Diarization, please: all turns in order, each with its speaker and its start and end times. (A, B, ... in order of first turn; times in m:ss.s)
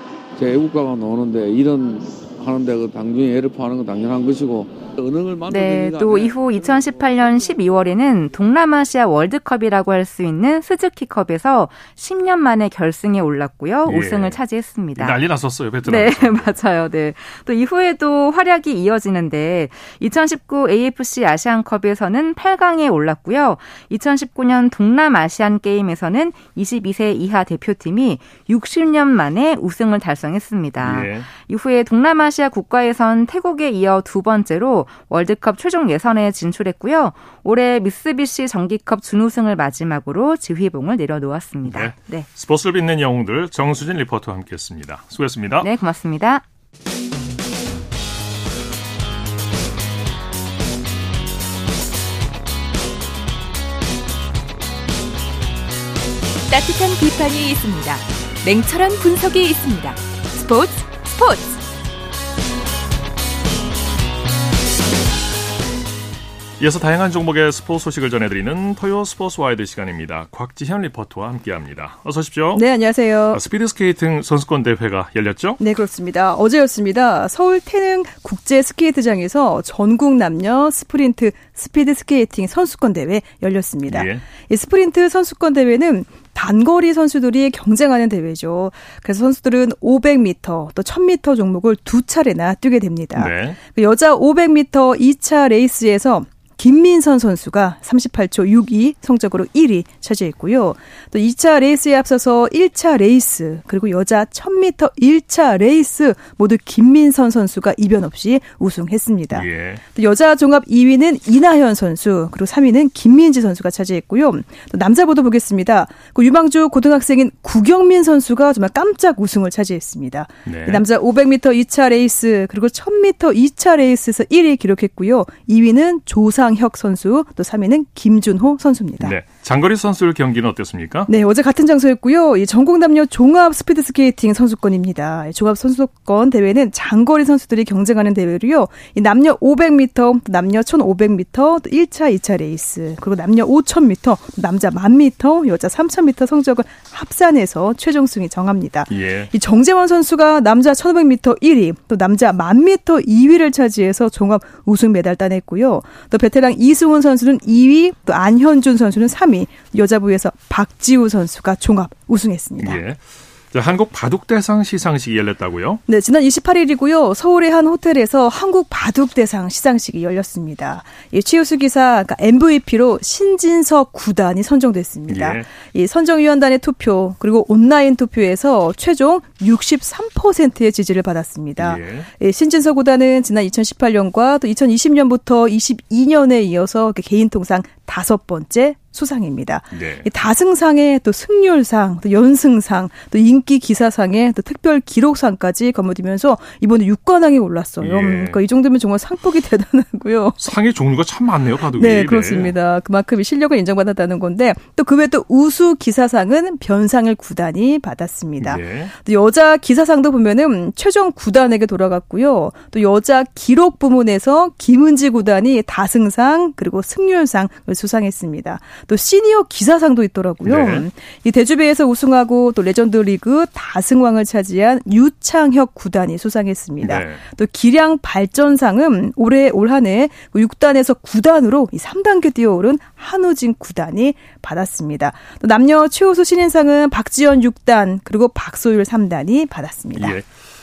0:00.4-0:06.5 A
0:05.5-0:15.2 B
0:13.8-0:14.4 C
0:15.0-0:16.6 C
0:15.8-0:42.3 B
0:30.8-0:31.3 C
0:41.6-0:45.7 C
0:45.6-0:46.4 B
0:56.5-1:01.6 D
1:06.6-1:12.7 C
1:12.5-1:13.4 E
1:13.3-1:15.6 C
1:15.6-2:09.2 E
1:23.9-1:24.3 C
1:33.2-1:33.6 C
1:49.3-1:49.8 C
2:00.5-2:00.8 C
2:09.0-2:11.1 C
2:11.1-2:42.8 E
2:28.9-2:29.3 C
2:42.6-2:45.8 C
2:45.9-3:20.4 E
2:55.1-2:55.5 C
3:01.6-3:02.1 C
3:09.7-3:10.1 C
3:17.8-3:18.4 C
3:20.4-3:22.6 C
3:21.7-4:00.2 E
3:28.4-3:28.9 C
3:40.4-3:40.9 C
3:46.8-3:47.2 C
4:00.0-4:00.3 C